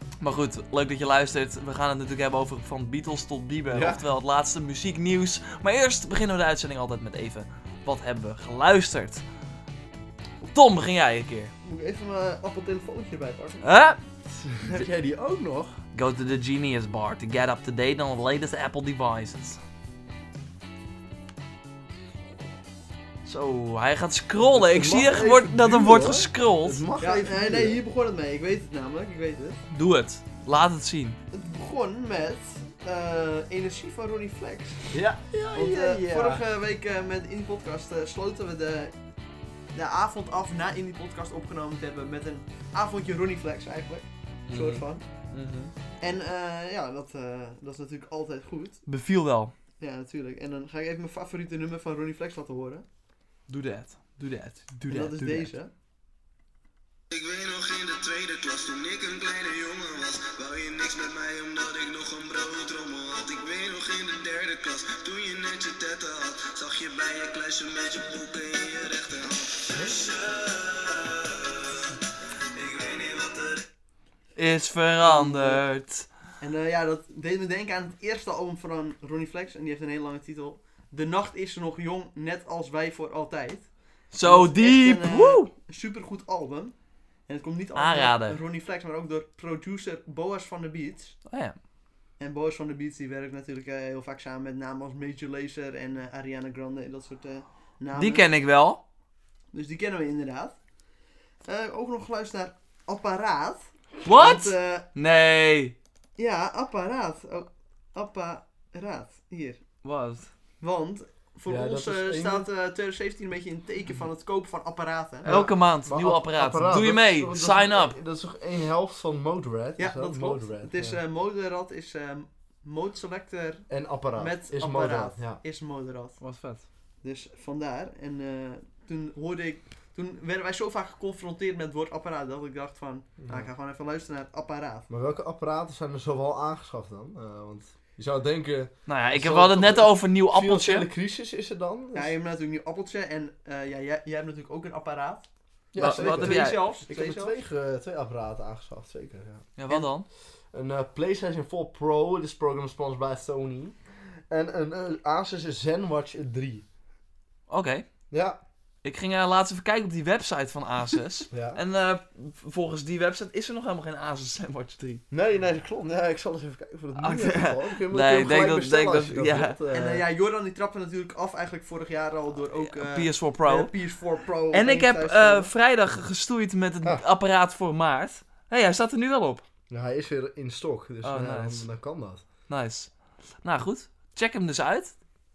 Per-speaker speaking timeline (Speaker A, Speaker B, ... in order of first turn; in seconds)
Speaker A: 0.2-9.2, 10.5-11.5, 13.6-14.0, 15.9-19.6, 23.2-26.8, 29.7-31.2, 44.5-45.7, 48.9-49.5, 53.5-55.5, 74.3-76.1, 84.1-85.5, 87.7-88.4, 91.2-91.5, 97.9-98.8, 104.0-105.8, 109.8-110.3, 115.2-118.0, 126.2-126.6, 138.9-140.9, 145.8-146.8, 149.6-150.1, 157.5-157.8, 158.8-165.0, 166.9-169.6, 172.6-173.7, 174.5-179.4, 181.0-181.7, 182.5-182.9, 183.4-184.9
Speaker B: 3.7-4.0, 14.4-15.8, 24.5-27.8, 34.9-36.4, 111.5-112.5, 115.2-121.0, 123.7-125.4, 133.2-133.5, 134.9-142.1, 145.7-149.6, 150.5-156.6, 158.1-158.4, 161.3-161.6, 165.1-170.1, 179.7-182.2
Speaker C: 11.6-13.9, 27.0-29.6, 31.3-35.0, 35.5-39.0, 39.7-45.0, 46.0-48.8, 49.8-52.9, 54.9-55.7, 75.0-75.6, 76.4-86.7, 87.3-91.2, 92.2-98.3, 99.5-100.5, 101.5-104.9, 106.2-109.6, 110.6-115.4, 119.8-126.2, 127.0-134.9, 141.9-147.4, 169.7-175.5
Speaker D: 57.1-71.8, 72.5-73.7